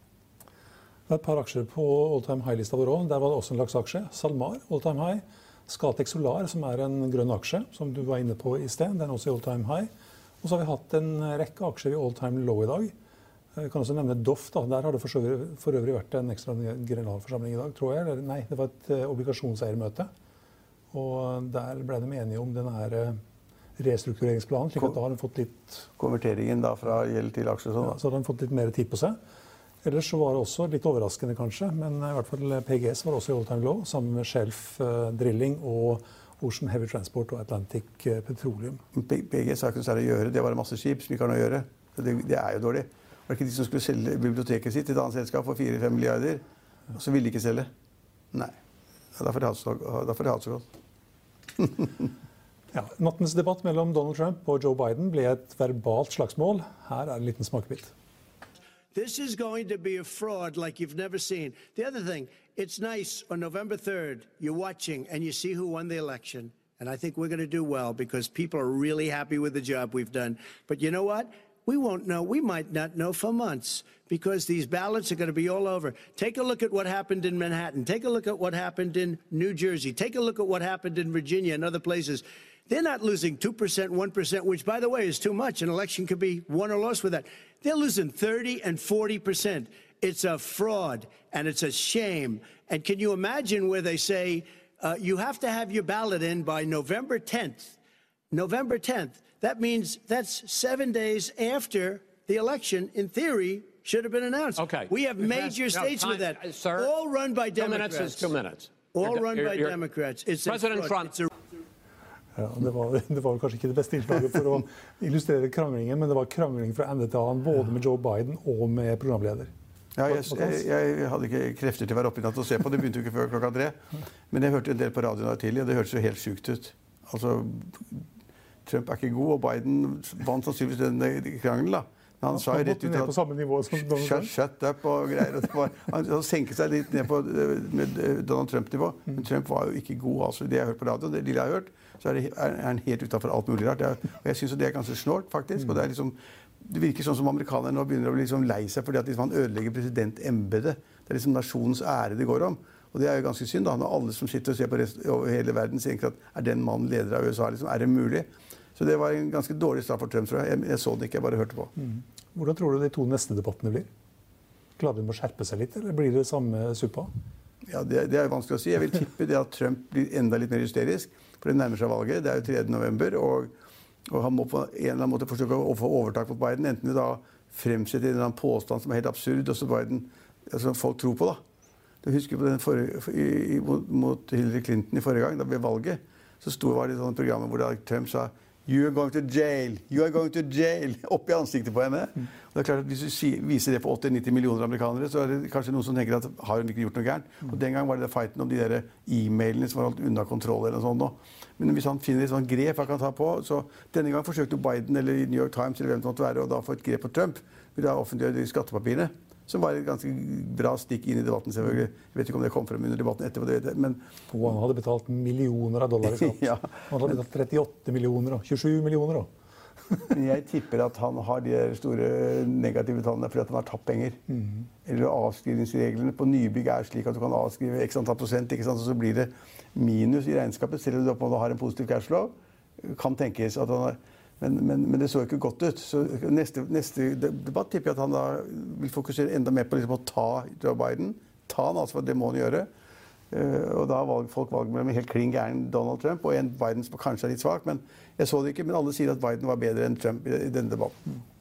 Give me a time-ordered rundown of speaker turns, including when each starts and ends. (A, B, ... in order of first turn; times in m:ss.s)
0:01.1-0:09.9 A
0:10.4-0:12.9 A
0:13.6-0:20.1 A
0:20.9-0:23.2 A
0:23.8-0:25.9 A
0:26.0-0:28.0 B
0:27.8-0:29.2 A
0:29.8-0:38.8 A
0:38.9-0:46.4 B
0:46.9-0:47.7 B
0:49.2-0:50.6 B
0:52.7-0:57.9 A
0:58.9-1:37.8 C
1:38.3-1:48.3 C
1:44.6-1:46.9 D
1:47.6-1:49.8 D
1:48.9-1:51.3 C
1:50.5-1:51.1 D
1:52.4-1:59.5 A
2:00.0-2:03.8 B
2:00.1-2:00.6 A
2:04.3-2:08.0 B
2:08.7-2:13.2 B
2:12.3-2:14.3 A
2:13.7-2:41.7 B
2:41.8-2:43.9 A
2:44.8-2:47.1 A
2:47.7-2:53.5 B
2:54.1-3:01.4 B
3:02.0-3:34.0 B
3:34.3-3:39.3 A
3:36.0-3:37.2 B
3:40.1-3:44.2 B
3:44.3-3:44.7 A
3:44.8-4:02.7 B
4:03.3-4:11.0 B